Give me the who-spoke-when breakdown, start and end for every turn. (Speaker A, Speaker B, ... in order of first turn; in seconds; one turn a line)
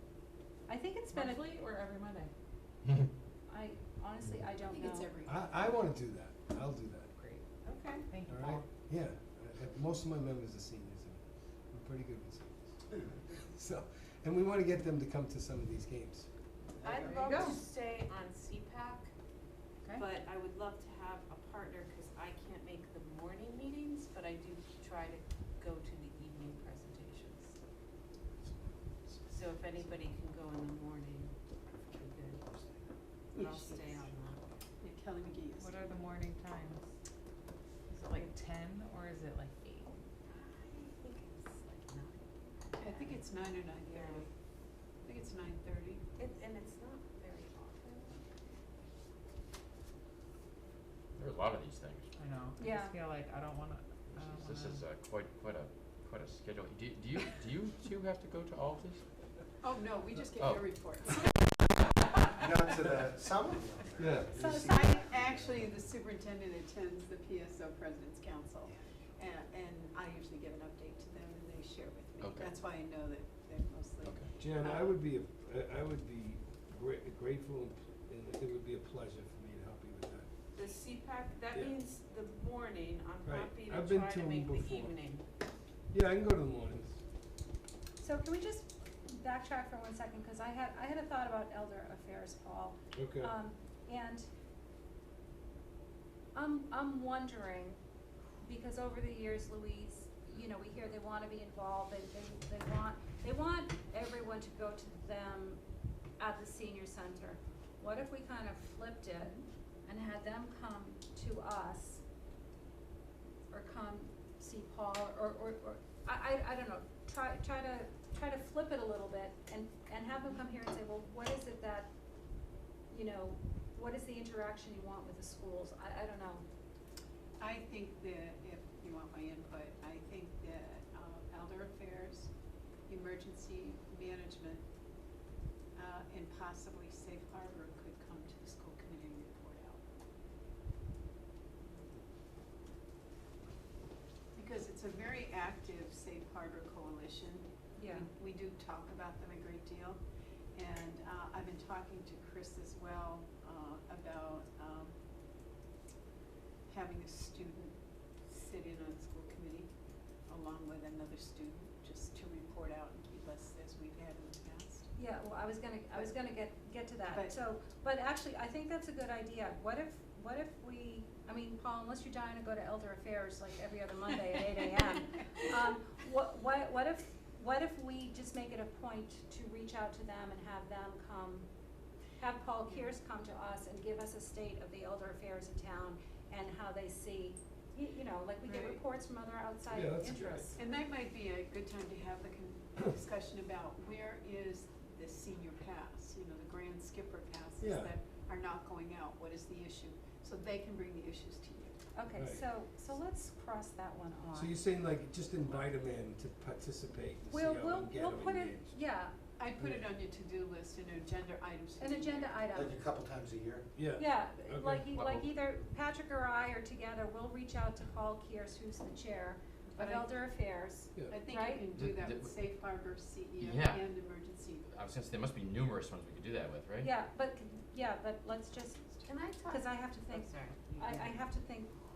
Speaker A: 0.7-1.4
Speaker B: 1.1-2.3
Speaker A: 3.5-5.1
Speaker C: 4.6-5.8
Speaker D: 5.3-7.1
Speaker E: 7.7-8.1
Speaker B: 8.1-8.6
Speaker D: 8.3-16.3
Speaker F: 16.8-17.5
Speaker E: 16.8-19.1
Speaker A: 17.3-17.6
Speaker E: 19.9-27.6
Speaker E: 29.3-31.3
Speaker E: 31.9-32.4
Speaker C: 33.3-34.1
Speaker E: 33.4-34.4
Speaker C: 34.8-35.9
Speaker B: 35.6-36.9
Speaker B: 37.9-39.9
Speaker E: 40.3-43.2
Speaker C: 42.7-44.3
Speaker E: 43.9-44.3
Speaker C: 45.0-46.0
Speaker E: 46.2-48.2
Speaker G: 51.2-52.1
Speaker B: 52.2-54.9
Speaker A: 52.6-53.0
Speaker G: 54.2-59.0
Speaker C: 59.6-61.3
Speaker G: 60.4-60.6
Speaker F: 62.4-65.4
Speaker D: 64.0-64.6
Speaker A: 64.4-64.9
Speaker C: 64.6-74.9
Speaker G: 72.2-72.5
Speaker G: 74.0-74.3
Speaker D: 74.4-80.3
Speaker E: 80.5-85.2
Speaker D: 83.2-84.9
Speaker D: 85.9-87.0
Speaker A: 88.0-94.3
Speaker D: 92.9-93.3
Speaker A: 96.3-97.8
Speaker A: 98.4-105.6
Speaker A: 106.2-112.0
Speaker A: 113.5-121.9
Speaker A: 122.9-126.5
Speaker C: 127.4-132.3
Speaker C: 132.9-134.6
Speaker C: 135.8-139.8
Speaker C: 144.3-150.0
Speaker A: 147.8-148.1
Speaker C: 150.6-154.9
Speaker C: 156.7-157.8
Speaker C: 158.3-159.7
Speaker C: 160.3-164.9
Speaker A: 165.0-181.5
Speaker C: 167.1-167.4
Speaker A: 182.2-190.6
Speaker C: 188.4-188.8
Speaker D: 189.7-190.5
Speaker C: 190.6-201.8
Speaker D: 197.6-197.9
Speaker A: 201.9-204.5
Speaker D: 202.2-202.4
Speaker D: 204.3-208.8
Speaker A: 207.3-209.2
Speaker C: 209.4-212.6
Speaker D: 209.6-209.8
Speaker A: 211.8-212.8
Speaker F: 212.5-213.7
Speaker D: 213.8-214.9
Speaker A: 214.0-221.7
Speaker G: 214.9-215.3
Speaker C: 219.7-220.1
Speaker C: 221.1-224.7
Speaker G: 221.7-222.3
Speaker G: 223.4-223.9
Speaker G: 224.7-226.9
Speaker A: 226.8-231.7
Speaker E: 229.1-231.2